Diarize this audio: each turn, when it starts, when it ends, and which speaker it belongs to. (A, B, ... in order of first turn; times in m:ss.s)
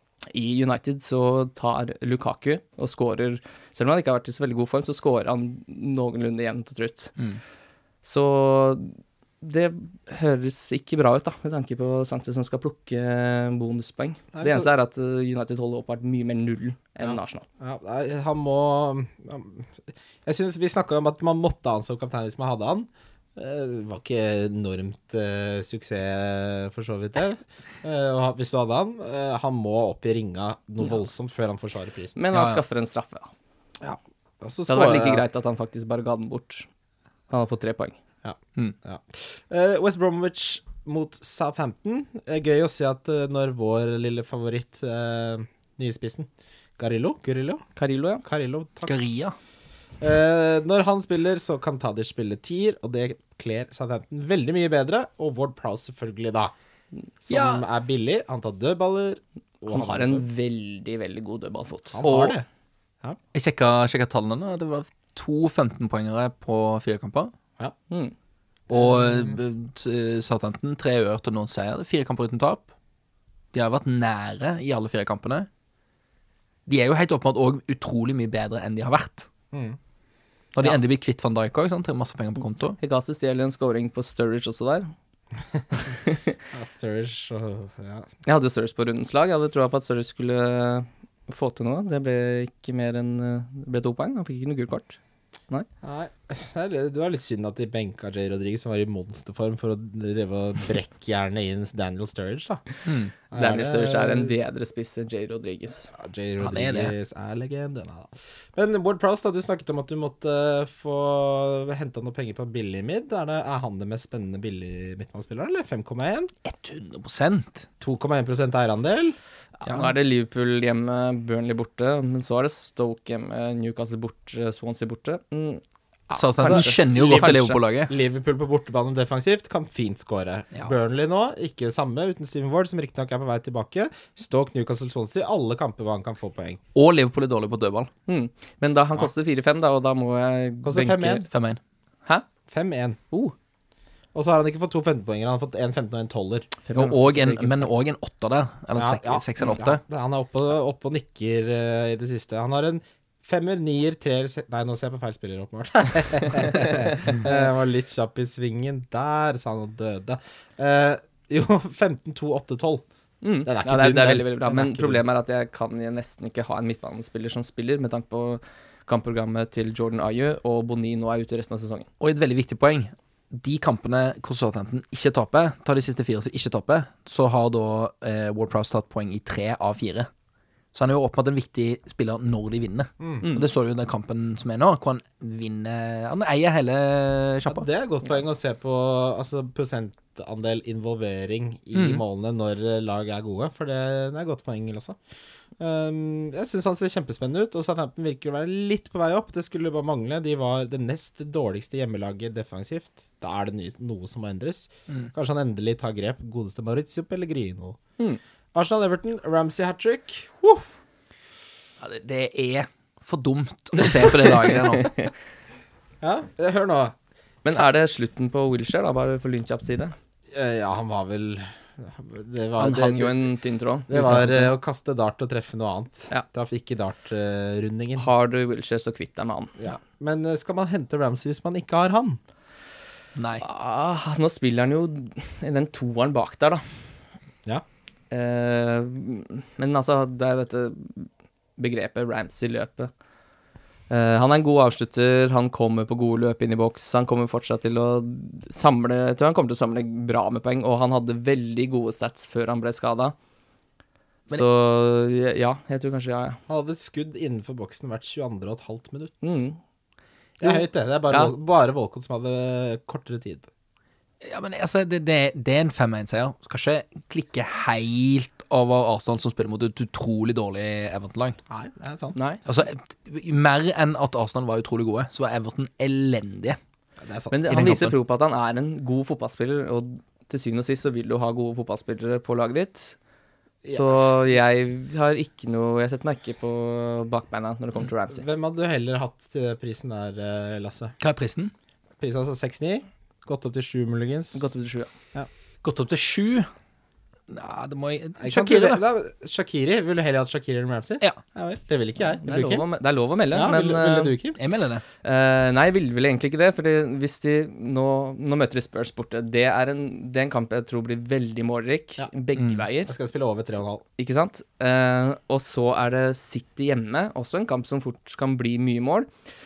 0:00.3-0:07.1 A
0:08.0-0:17.4 A
0:14.3-0:14.7 B
0:17.0-0:32.2 B
0:32.2-0:33.3 A
0:32.3-0:32.6 C
0:33.8-0:35.2 B
0:34.7-0:36.7 A
0:37.3-0:38.0 A
0:38.2-0:47.6 B
0:47.8-0:48.2 A
0:48.2-0:49.0 B
0:48.9-0:49.4 C
0:50.0-0:56.5 B
0:57.2-1:00.2 B
0:57.3-0:57.6 C
0:59.7-1:02.0 A
1:01.9-1:02.5 B
1:02.0-1:02.4 C
1:03.3-1:07.3 C
1:08.7-1:09.4 B
1:08.7-1:12.7 C
1:13.5-1:15.5 C
1:16.7-1:19.3 C
1:19.5-1:19.8 B
1:20.6-1:22.8 C
1:22.8-1:24.9 A
1:25.9-1:26.4 A
1:26.5-1:28.1 B
1:28.2-1:35.0 A
1:35.8-1:42.6 B
1:42.9-1:43.1 C
1:43.3-1:44.3 B
1:43.3-1:45.9 A
1:45.9-1:56.3 B
1:46.4-1:46.9 C
1:56.4-1:57.7 C
1:57.8-1:59.2 B
1:59.6-2:07.6 A
1:59.7-1:59.9 C
2:06.1-2:07.9 C
2:06.4-2:16.6 B
2:16.7-2:17.9 C
2:18.1-2:21.3 A
2:20.6-2:21.3 B
2:21.3-2:21.6 C
2:22.5-2:23.0 B
2:24.1-2:26.5 B
2:26.6-2:27.7 A
2:26.7-2:29.8 C
2:28.8-2:42.8 B
2:43.2-2:51.9 A
2:43.4-2:45.0 B
2:52.0-3:00.1 C
3:00.7-3:07.6 C
3:07.5-3:15.0 B
3:11.8-3:12.0 C
3:15.6-3:27.8 B
3:28.5-3:30.7 B
3:31.8-3:35.0 C
3:34.7-3:35.1 A
3:36.0-3:37.0 B
3:37.4-3:40.0 A
3:40.3-3:43.3 B
3:42.6-3:44.5 A
3:43.9-3:48.1 B
3:48.0-3:49.5 A
3:49.6-3:52.2 B
3:53.2-3:53.4 C
3:53.4-3:56.6 A
3:58.1-4:02.9 A
4:03.9-4:13.2 A
4:14.3-4:16.4 A
4:16.5-4:19.2 B
4:19.2-4:19.6 A
4:20.4-4:23.5 B
4:20.4-4:21.3 A
4:24.2-4:31.4 C
4:31.5-4:32.2 B
4:32.2-4:32.4 A
4:32.4-4:36.6 C
4:37.0-4:37.6 B
4:37.3-4:43.0 A
4:37.5-4:38.0 C
4:43.6-4:44.1 B
4:43.7-4:48.2 A
4:48.1-4:51.0 B
4:51.0-4:51.5 C
4:52.0-4:54.5 B
4:54.3-4:54.9 A
4:55.6-4:56.5 C
4:57.3-4:58.8 C
4:58.2-5:02.6 B
5:02.2-5:04.2 A
5:03.3-5:04.4 B
5:04.4-5:04.8 C
5:05.0-5:12.9 A
5:12.4-5:12.6 C
5:12.9-5:13.8 B
5:14.0-5:19.1 A